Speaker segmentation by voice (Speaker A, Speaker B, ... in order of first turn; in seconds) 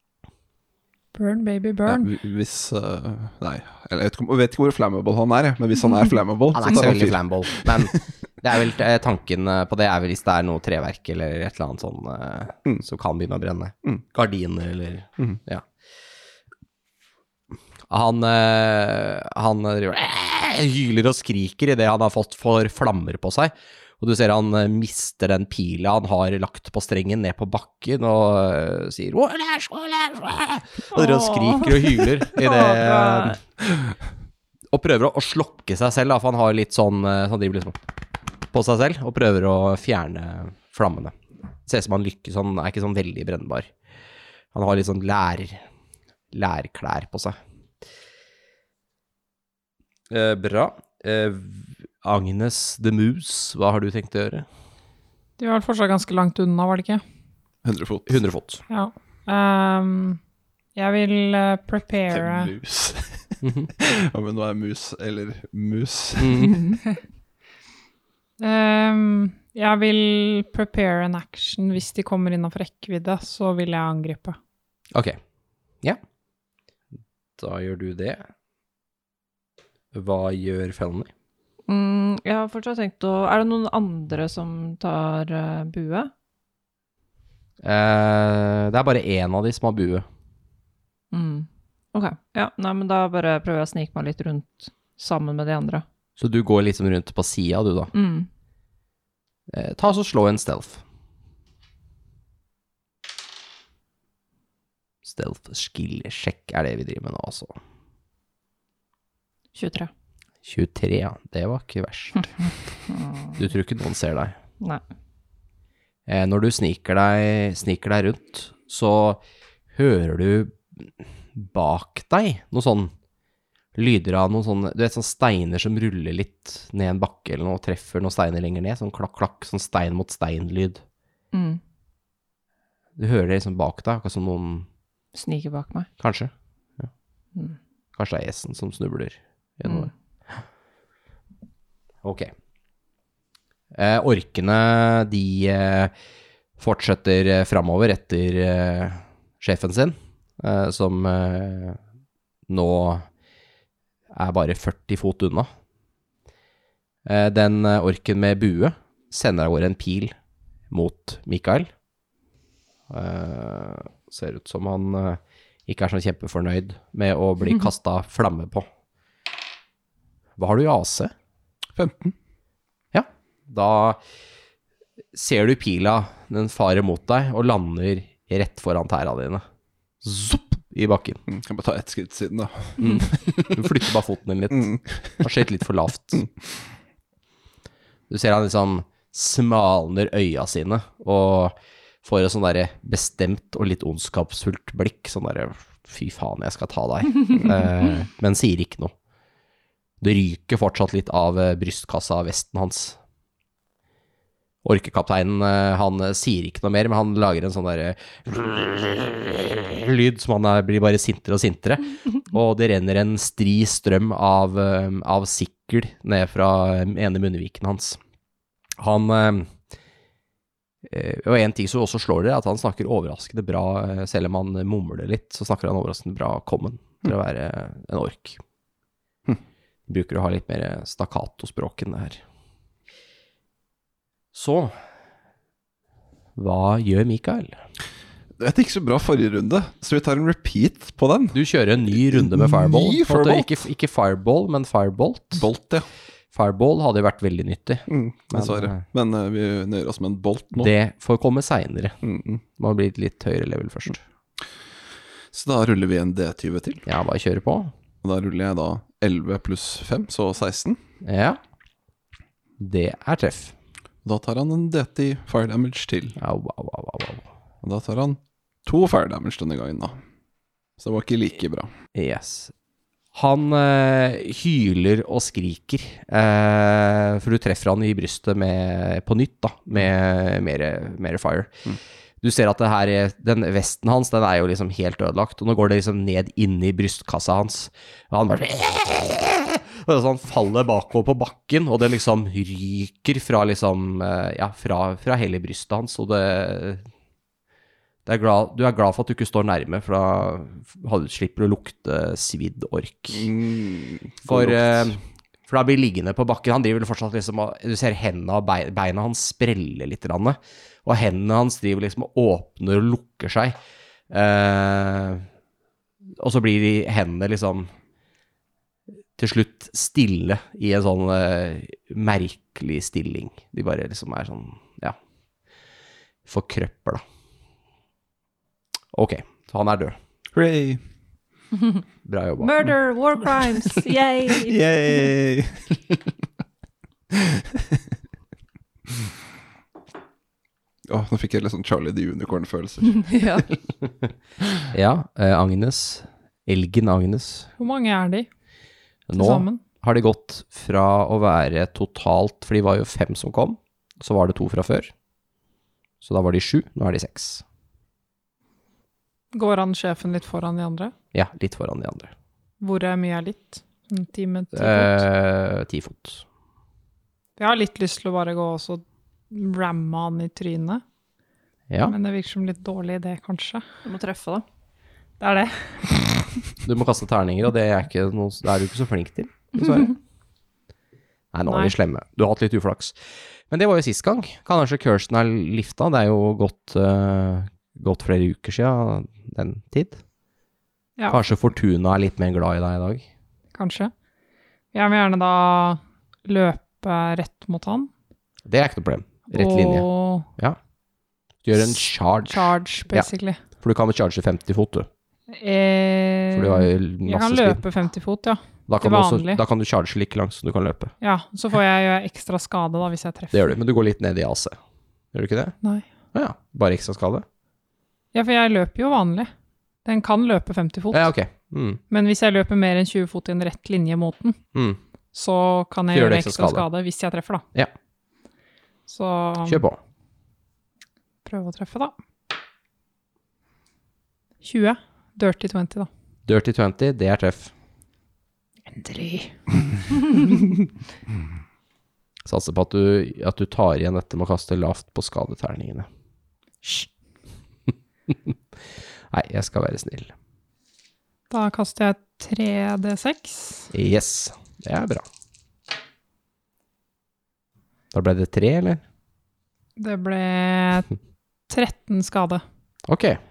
Speaker A: 1.1-2.1, 55.4-57.0, 58.7-60.2, 60.7-62.5, 68.4-74.4, 347.6-348.3, 349.1-349.6, 359.3-360.9, 362.6-365.0, 367.4-370.8, 371.9-373.6, 375.2-375.9, 381.5-381.7, 393.5-393.9, 394.7-397.9, 399.3-400.3, 402.3-403.4, 405.3-409.4, 411.0-413.5, 418.1-419.3, 419.8-421.1, 421.9-424.4, 425.1-427.4, 428.9-429.6, 431.2-431.9, 434.4-435.9, 438.7-439.3, 440.0-440.5, 446.6-446.9, 451.3-453.7, 459.8-460.9, 461.5-462.4
Speaker B: 1.9-8.0, 57.6-58.2, 62.1-66.5, 171.7-172.1, 181.3-183.8, 184.5-185.2, 238.4-241.4, 241.9-243.6, 245.3-245.9, 247.9-250.7, 252.0-252.4, 255.3-256.8, 258.0-260.8, 264.0-266.2, 267.6-270.0, 270.8-271.7, 303.1-304.9, 330.3-330.8, 334.3-336.0, 337.1-337.8, 340.9-343.1
Speaker C: 6.5-15.6, 17.9-33.4, 34.7-37.8, 38.5-41.1, 41.6-43.7, 44.5-45.6, 46.3-47.4, 50.1-54.5, 58.1-58.6, 63.4-63.7, 66.2-66.6, 77.4-78.3, 79.9-81.1, 87.6-90.0, 96.2-97.9, 99.5-100.8, 105.0-107.6, 110.4-112.2, 113.4-114.3, 116.1-119.2, 119.7-122.9, 123.7-130.8, 133.0-134.7, 136.0-136.9, 138.0-139.9, 142.0-142.3, 143.7-145.9, 146.6-151.8, 152.5-153.1, 154.1-155.5, 157.0-160.1, 160.7-161.7, 162.9-168.7, 170.4-171.1, 172.9-174.0, 175.1-179.4, 180.0-181.2, 182.8-186.2, 188.1-198.9, 200.0-203.0, 204.6-218.0, 218.8-219.5, 220.8-228.4, 229.9-232.2, 234.3-234.7, 236.3-237.5, 241.3-245.4, 246.3-248.8, 250.6-252.0, 252.6-254.0, 256.9-257.7, 261.0-261.4, 262.6-263.5, 266.2-267.3, 271.9-272.5, 273.1-281.5, 282.2-296.8, 298.1-303.3, 304.2-313.6, 314.1-315.2, 316.2-317.7, 319.2-325.0, 326.3-327.0, 328.9-329.9, 332.1-332.7, 344.7-347.5, 349.1-354.9, 356.0-357.4, 361.1-362.1, 364.5-366.2, 371.7-371.9, 376.6-379.9, 381.3-382.9, 383.5-390.0, 391.1-393.0, 398.5-400.6, 401.4-403.1, 403.6-404.9, 406.3-407.6, 408.7-410.9, 413.3-414.6, 415.1-415.5, 416.1-417.2, 420.9-421.8, 424.5-424.8, 425.9-426.7, 429.4-429.8, 436.3-437.5, 442.2-445.9, 449.1-450.1, 453.7-455.0, 457.9-458.8, 462.9-463.2
Speaker D: 30.9-33.4, 66.5-66.8, 81.7-86.1, 91.1-95.8, 97.9-98.3, 109.5-109.9, 112.2-113.4, 131.3-131.6, 135.1-135.9, 331.6-331.8, 332.4-334.6, 342.9-343.5, 373.8-374.4